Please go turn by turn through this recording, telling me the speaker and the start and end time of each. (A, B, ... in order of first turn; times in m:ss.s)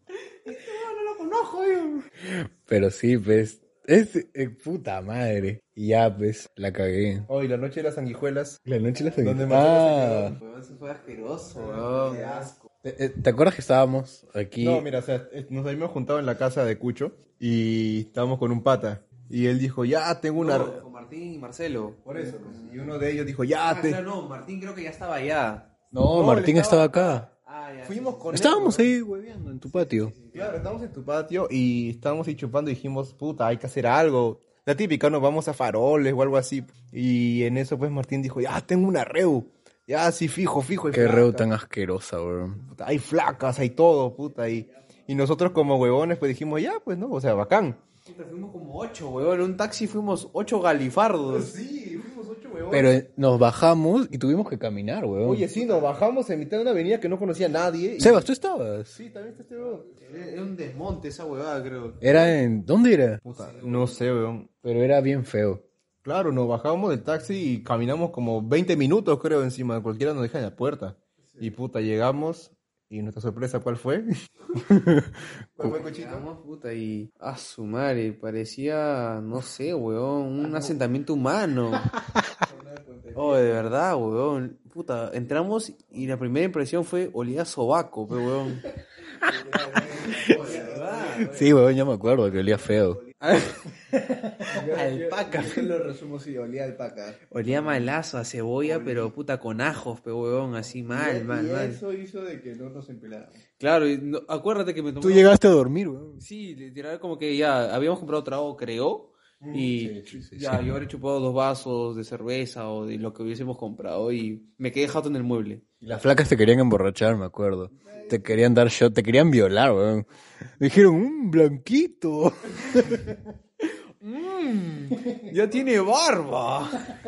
0:00.4-0:02.0 A
0:02.2-0:07.3 B
0:07.3-0:08.6 C
0:08.6-0:10.3 B
0:09.2-0:10.4 C
0:10.1-0:12.5 A
0:11.5-0:12.6 C
0:12.8-0:14.8 B
0:14.6-0:20.8 C
0:20.3-0:22.4 A
0:22.0-0:24.0 C
0:23.6-0:25.7 A
0:25.9-0:27.3 B
0:26.1-0:27.2 C
0:27.3-0:28.5 A
0:27.8-0:28.9 C
0:28.3-0:30.1 B
0:29.7-0:30.6 A
0:30.3-0:41.5 C
0:40.9-0:42.6 B
0:42.6-0:47.8 C
0:48.1-0:51.5 A
0:51.3-0:52.9 C
0:52.7-0:55.5 B
0:55.2-0:58.3 C
0:58.0-0:59.0 B
0:58.9-0:59.9 C
1:00.0-1:02.3 A
1:02.0-1:03.2 B
1:03.2-1:04.5 C
1:03.3-1:04.0 A
1:04.6-1:05.6 B
1:06.0-1:14.1 C
1:14.6-1:15.2 B
1:15.6-1:16.2 C
1:15.6-1:21.9 A
1:22.0-1:22.3 B
1:22.4-1:23.8 D
1:23.1-1:28.6 A
1:29.2-1:31.5 D
1:29.9-1:30.5 B
1:30.2-1:31.4 A
1:31.3-1:33.0 B
1:33.2-1:33.6 A
1:33.9-1:35.6 B
1:34.5-1:37.2 D
1:37.3-1:41.8 A
1:38.6-1:39.1 D
1:40.9-1:43.4 D
1:43.6-1:45.3 A
1:45.0-1:46.2 B
1:46.2-1:55.6 A
1:49.4-1:49.7 C
1:49.8-1:50.8 B
1:55.8-2:00.1 B
2:00.6-2:03.2 B
2:03.6-2:06.9 A